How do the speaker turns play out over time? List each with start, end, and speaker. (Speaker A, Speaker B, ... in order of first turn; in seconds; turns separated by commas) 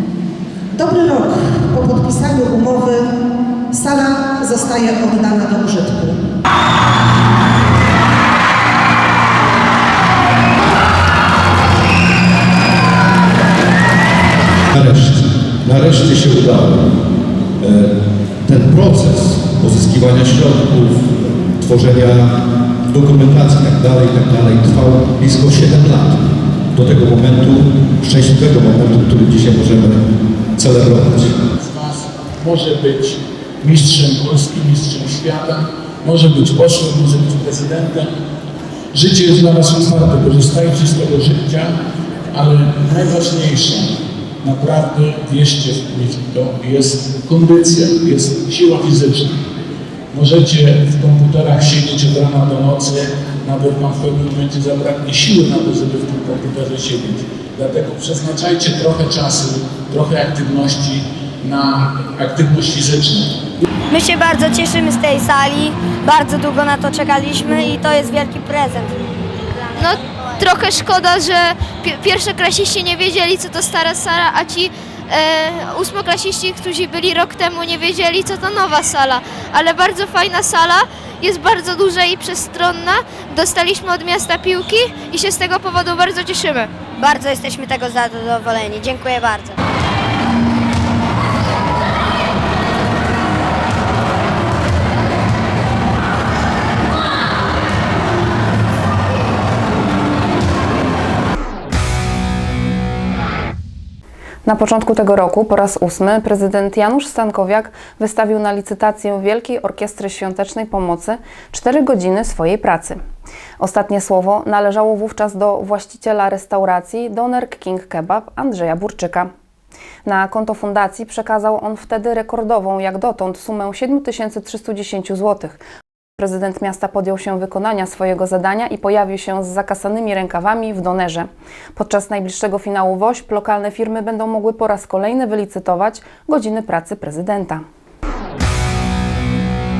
Speaker A: 0.7-3.1, Speaker A: 3.7-6.2, Speaker B: 14.9-15.1, Speaker B: 15.9-16.6, Speaker B: 18.5-21.0, Speaker B: 21.6-22.1, Speaker B: 22.9-26.1, Speaker B: 26.8-29.9, Speaker B: 30.6-31.3, Speaker C: 31.6-38.1, Speaker C: 38.9-41.8, Speaker C: 42.3-49.4, Speaker C: 50.1-63.4, Speaker D: 63.9-68.9, Speaker E: 69.8-86.7, Speaker D: 87.0-89.5, Speaker F: 104.4-113.0, Speaker F: 113.6-119.3, Speaker F: 120.0-125.6, Speaker F: 126.2-137.6